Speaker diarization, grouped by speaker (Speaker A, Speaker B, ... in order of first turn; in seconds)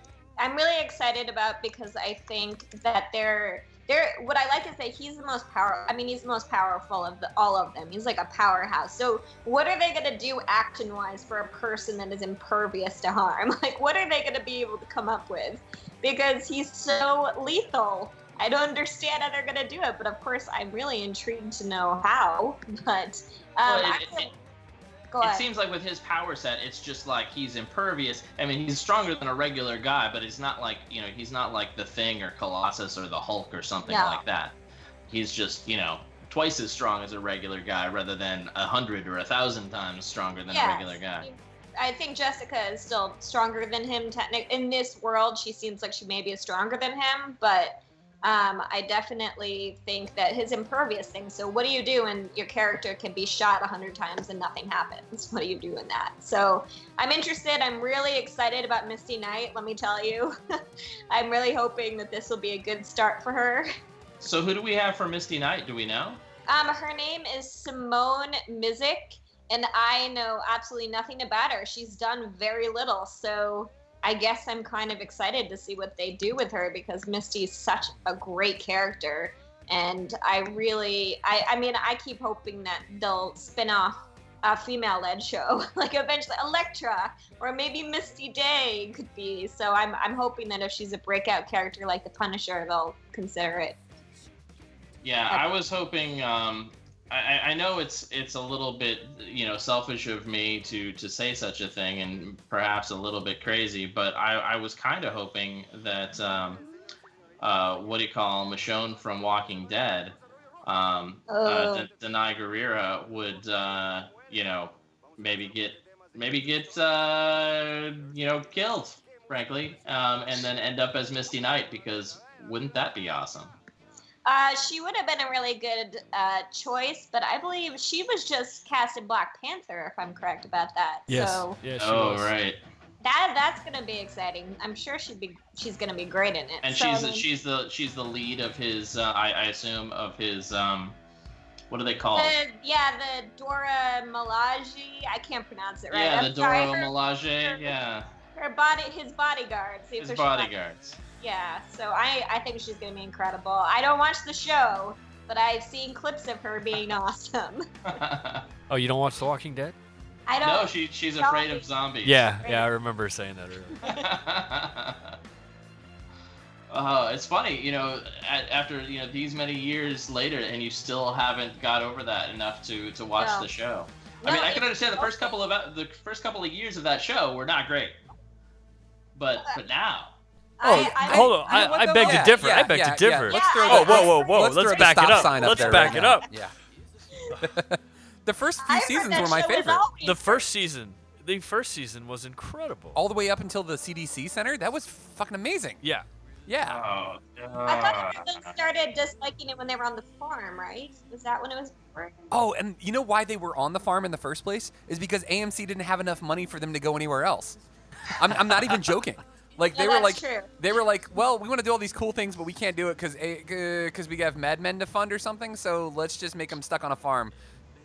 Speaker A: 0.4-24.3, 25.1-25.5, 33.9-34.2, 40.5-60.4, 61.1-63.7, 66.5-93.8, 111.3-111.9, 124.2-131.6, 133.0-137.2, 142.1-147.8, 148.3-150.5, 151.2-157.7, 160.3-161.7, 162.3-162.7, 173.2-173.5, 174.2-175.4, 180.6-182.5, 183.3-186.1, 188.6-190.5, 197.7-202.3, 209.7-210.5
Speaker B: 23.6-24.3, 25.2-34.5, 35.1-41.3, 64.2-66.2, 95.0-106.6, 107.4-123.5, 131.8-132.6, 136.6-141.0, 141.7-142.3, 145.9-148.1, 150.0-151.0, 157.8-158.4, 160.4-162.3, 163.8-165.2, 166.7-178.0, 179.1-180.1, 196.7-198.5
Speaker C: 131.1-132.3, 158.7-159.8, 162.0-163.9, 180.6-186.3, 190.0-193.0, 195.8-196.1
Speaker D: 180.7-186.5, 187.4-189.9, 192.9-195.8, 196.5-196.8, 202.3-207.6, 208.2-217.3